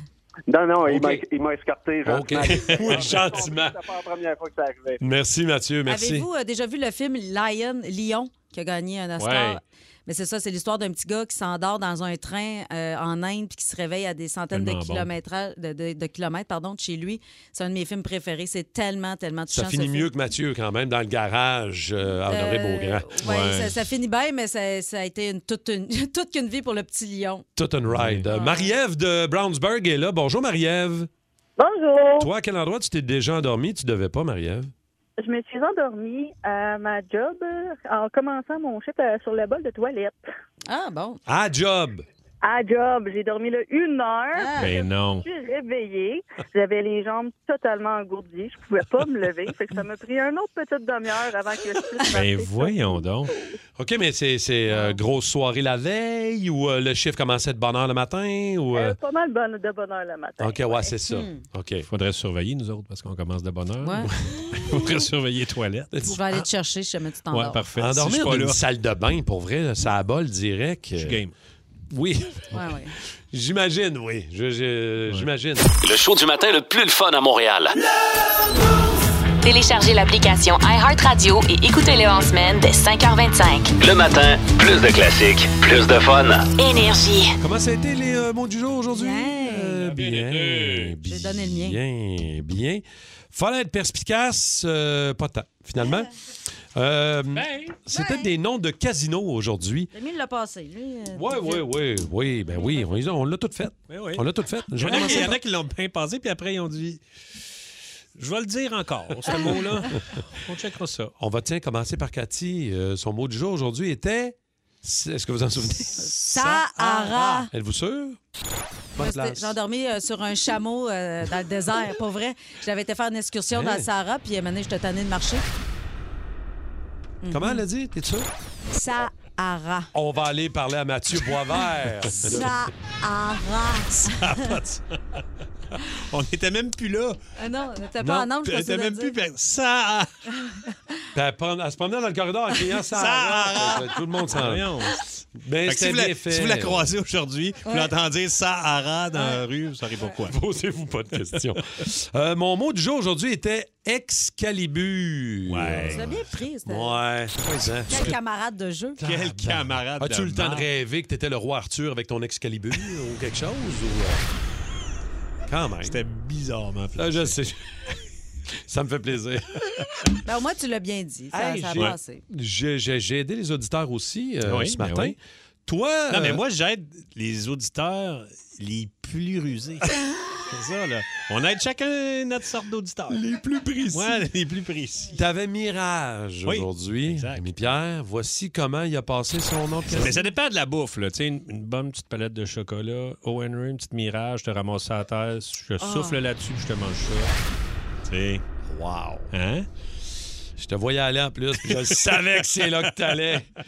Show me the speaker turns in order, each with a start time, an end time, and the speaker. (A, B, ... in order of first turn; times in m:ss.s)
0:00.5-0:05.0 A
0:00.9-0:01.2 B
0:02.0-0:03.8 B
0:02.6-0:03.1 C
0:05.0-0:06.3 B
0:05.9-0:20.1 D
0:09.2-0:09.6 C
0:14.5-0:15.1 C
0:19.5-0:23.2 B
0:22.3-0:27.4 D
0:23.2-0:23.8 C
0:27.6-0:31.1 B
0:27.9-0:28.2 C
0:28.3-0:28.7 D
0:31.6-0:32.3 E
0:32.2-0:34.7 B
0:35.2-0:40.2 E
0:40.6-0:41.2 D
0:41.2-0:42.0 B
0:42.4-0:53.6 E
0:44.3-0:44.7 D
0:44.6-0:45.2 C
0:52.1-0:53.3 C
0:53.8-0:59.0 B
0:54.7-0:55.0 D
0:58.7-1:01.0 E
1:00.4-1:01.9 B
1:01.1-1:01.4 D
1:01.9-1:06.2 C
1:03.8-1:04.1 D
1:04.3-1:04.8 B
1:05.9-1:06.4 B
1:06.1-1:07.6 D
1:07.3-1:08.6 C
1:07.8-1:11.2 B
1:10.9-1:11.3 C
1:11.9-1:12.6 B
1:12.5-1:12.9 D
1:13.3-1:15.7 B
1:15.8-1:17.8 F
1:19.4-1:23.7 G
1:23.8-1:26.4 F
1:26.6-1:27.4 G
1:27.4-1:36.1 B
1:28.9-1:29.9 D
1:29.8-1:30.9 C
1:31.0-1:31.8 D
1:36.7-1:39.9 B
1:37.3-1:37.7 C
1:37.9-1:38.3 D
1:39.9-1:41.7 D
1:41.2-1:45.4 B
1:42.5-1:42.8 D
1:43.9-1:44.2 C
1:44.8-1:47.0 C
1:44.9-1:45.2 D
1:48.2-1:51.1 C
1:51.2-1:56.1 B
1:56.0-1:57.5 D
1:56.2-1:57.5 C
1:57.5-1:58.2 B
1:59.0-1:59.6 B
1:59.0-2:05.5 D
2:03.5-2:03.8 B
2:07.2-2:07.6 D
2:07.3-2:08.3 B
2:08.7-2:09.9 D
2:09.9-2:12.5 B
2:12.2-2:14.5 D
2:14.0-2:15.2 C
2:15.8-2:17.2 C
2:17.4-2:19.1 D
2:18.0-2:18.3 B
2:18.4-2:20.2 C
2:20.4-2:20.7 D
2:21.1-2:24.8 B
2:22.8-2:30.4 C
2:25.4-2:26.9 B
2:27.6-2:27.9 D
2:29.1-2:29.4 D
2:30.2-2:38.2 B
2:35.5-2:36.1 C
2:35.8-2:37.0 D
2:37.9-2:39.0 D
2:39.0-2:44.2 B
2:39.0-2:40.7 C
2:45.5-2:46.0 B
2:45.8-2:47.4 C
2:47.0-2:47.7 B
2:48.7-2:49.8 B
2:50.2-2:52.2 D
2:51.3-2:56.4 B
2:54.4-2:55.2 C
2:56.1-2:59.9 C
3:00.5-3:03.2 C
3:03.1-3:04.2 B
3:03.9-3:05.1 C
3:05.1-3:10.2 B
3:06.4-3:07.5 C
3:09.9-3:17.3 C
3:15.8-3:16.2 D
3:18.0-3:18.4 C
3:18.7-3:19.3 B
3:19.3-3:19.7 C
3:20.6-3:23.5 B
3:21.6-3:23.3 C